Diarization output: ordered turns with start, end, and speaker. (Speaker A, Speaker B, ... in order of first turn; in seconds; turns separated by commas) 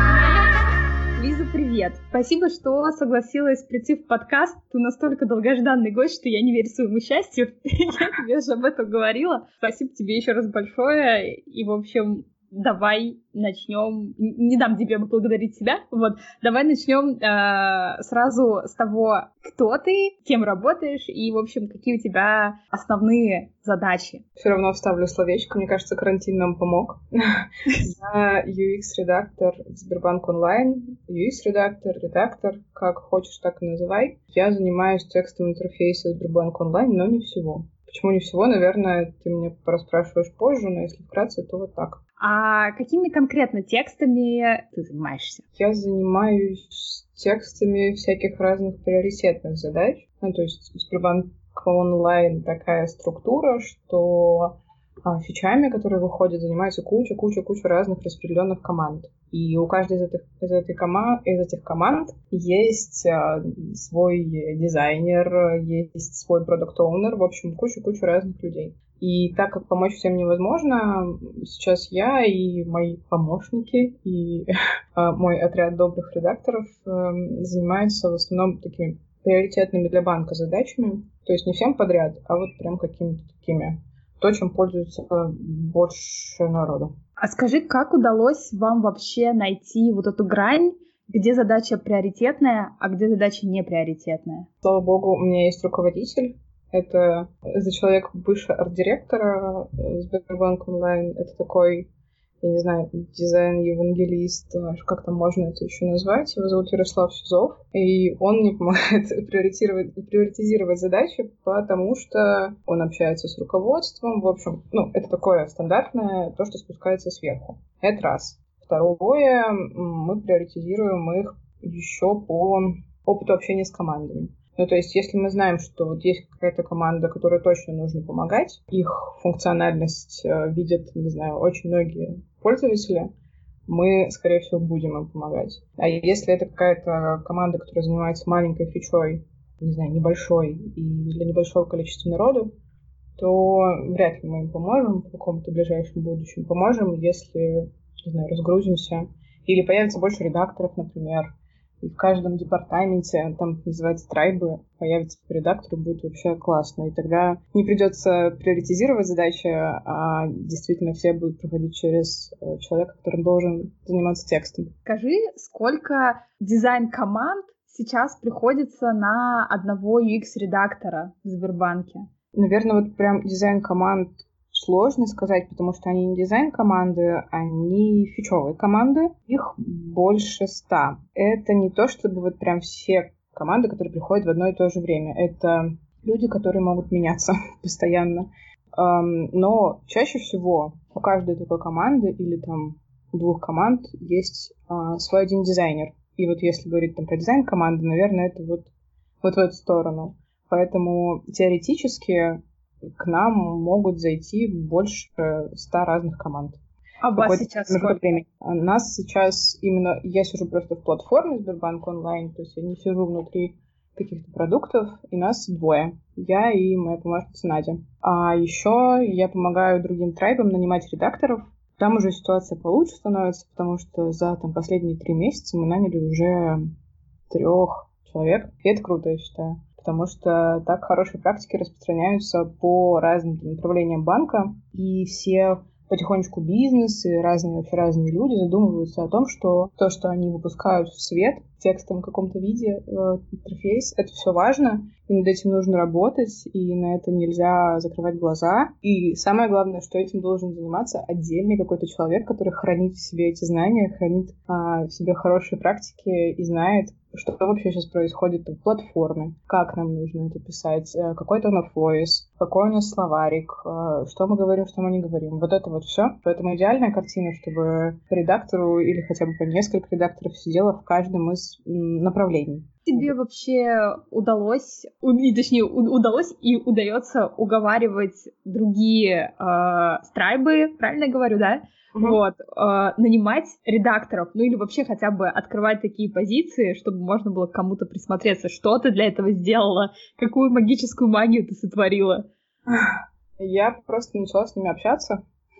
Speaker A: 1.1-24.2, Speaker B: 24.4-42.0, Speaker A: 42.2-45.4, Speaker B: 45.5-86.9, Speaker A: 87.2-94.5, Speaker B: 94.6-101.9, Speaker B: 102.4-133.1, Speaker B: 133.7-142.5, Speaker B: 143.2-164.7, Speaker A: 164.8-172.1, Speaker B: 172.3-198.7, Speaker B: 199.2-202.4, Speaker B: 203.0-206.6, Speaker A: 207.0-208.0, Speaker B: 207.1-226.6, Speaker B: 227.3-273.1, Speaker A: 272.9-292.2, Speaker B: 292.7-295.2